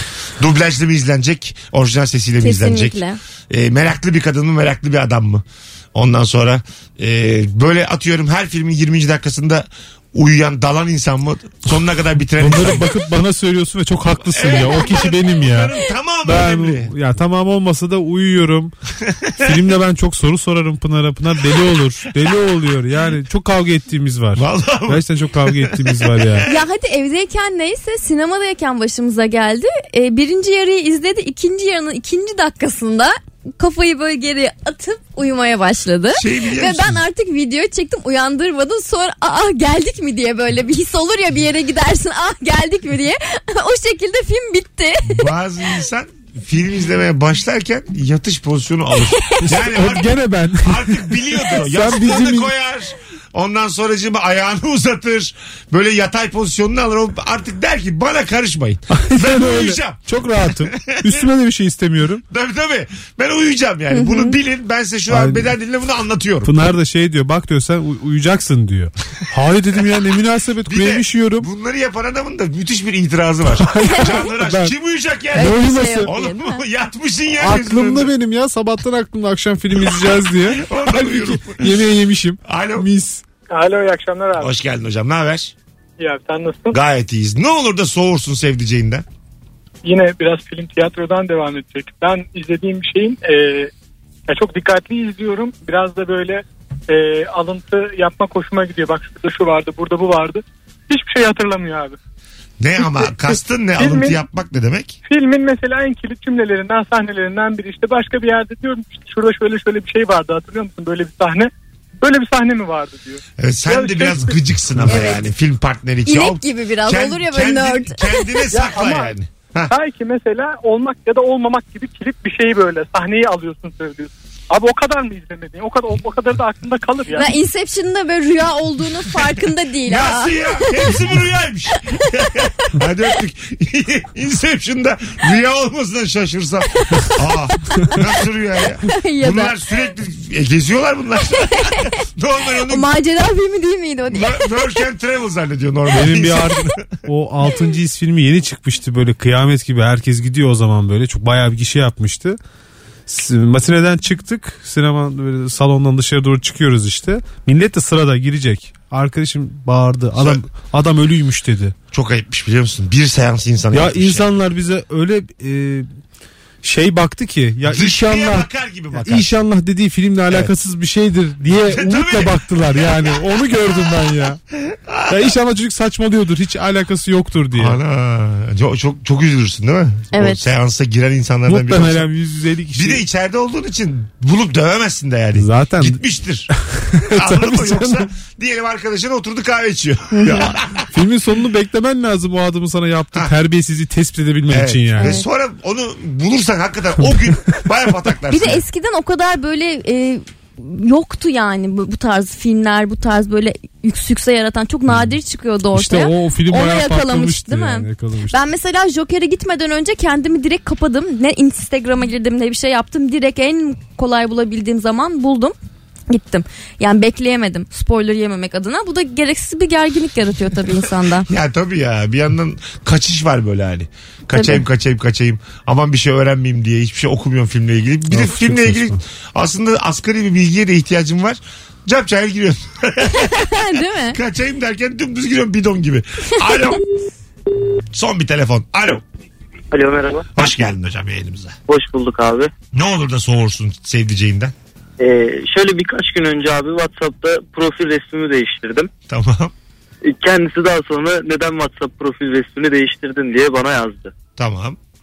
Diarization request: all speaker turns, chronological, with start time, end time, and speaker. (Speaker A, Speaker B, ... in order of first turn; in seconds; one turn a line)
Speaker A: 0.4-5.4
Speaker B: 2.4-3.2
Speaker A: 6.0-12.9
Speaker C: 12.4-15.7
Speaker A: 14.3-16.9
Speaker C: 16.2-18.7
Speaker A: 19.0-19.6
Speaker C: 19.4-26.5
Speaker A: 24.4-26.6
Speaker B: 26.5-45.3
Speaker A: 36.1-37.0
Speaker A: 45.0-61.3
Speaker C: 49.4-52.5
Speaker C: 59.0-62.2
Speaker A: 62.3-66.5
Speaker B: 63.9-64.4
Speaker C: 65.1-65.5
Speaker C: 66.4-71.5
Speaker A: 70.7-78.1
Speaker C: 73.5-74.7
Speaker B: 73.9-74.2
Speaker B: 75.3-76.6
Speaker C: 75.3-76.1
Speaker C: 77.4-83.2
Speaker A: 79.8-81.9
Speaker A: 82.5-82.9
Speaker D: 83.5-84.5
Speaker A: 84.4-85.5
Speaker D: 86.0-86.8
Speaker A: 86.7-89.0
Speaker D: 89.8-93.7
Speaker D: 94.3-102.0
Speaker A: 102.6-105.0
Speaker D: 102.8-103.1
Speaker D: 103.8-104.2
Speaker D: 105.1-111.5
Speaker D: 112.0-114.4
Speaker A: 113.4-119.7
Speaker B: 114.9-115.3
Speaker B: 116.1-118.5
Speaker D: 118.5-119.1
Speaker D: 119.7-127.3
Speaker B: 127.1-131.0
Speaker A: 129.8-142.9
Speaker B: 138.9-139.6
Speaker B: 141.5-141.9
Speaker B: 142.7-144.8
Speaker A: 144.1-146.9
Speaker C: 145.9-152.4
Speaker C: 153.1-161.8
Speaker A: 160.2-160.4
Speaker A: 161.9-164.3
Speaker C: 163.7-165.9
Speaker C: 166.6-174.4
Speaker A: 167.7-169.3
Speaker A: 171.5-173.2
Speaker A: 174.7-175.3
Speaker C: 175.1-177.8
Speaker A: 177.5-182.1
Speaker B: 180.1-180.4
Speaker C: 181.5-183.0
Speaker A: 182.7-190.9
Speaker C: 185.3-186.0
Speaker C: 186.7-188.1
Speaker B: 190.1-190.5
Speaker C: 190.9-195.2
Speaker A: 194.5-198.6
Speaker B: 195.0-195.2
Speaker B: 198.3-215.6
Speaker C: 205.7-208.4
Speaker B: 216.1-221.3
Speaker A: 221.3-236.8
Speaker B: 224.3-224.6
Speaker C: 228.1-229.0
Speaker B: 233.1-234.2
Speaker A: 237.9-239.0
Speaker E: 239.7-240.3
Speaker A: 240.4-241.5
Speaker E: 241.7-242.5
Speaker A: 242.7-244.5
Speaker E: 245.0-248.9
Speaker A: 249.1-249.5
Speaker E: 250.0-254.1
Speaker A: 254.4-254.8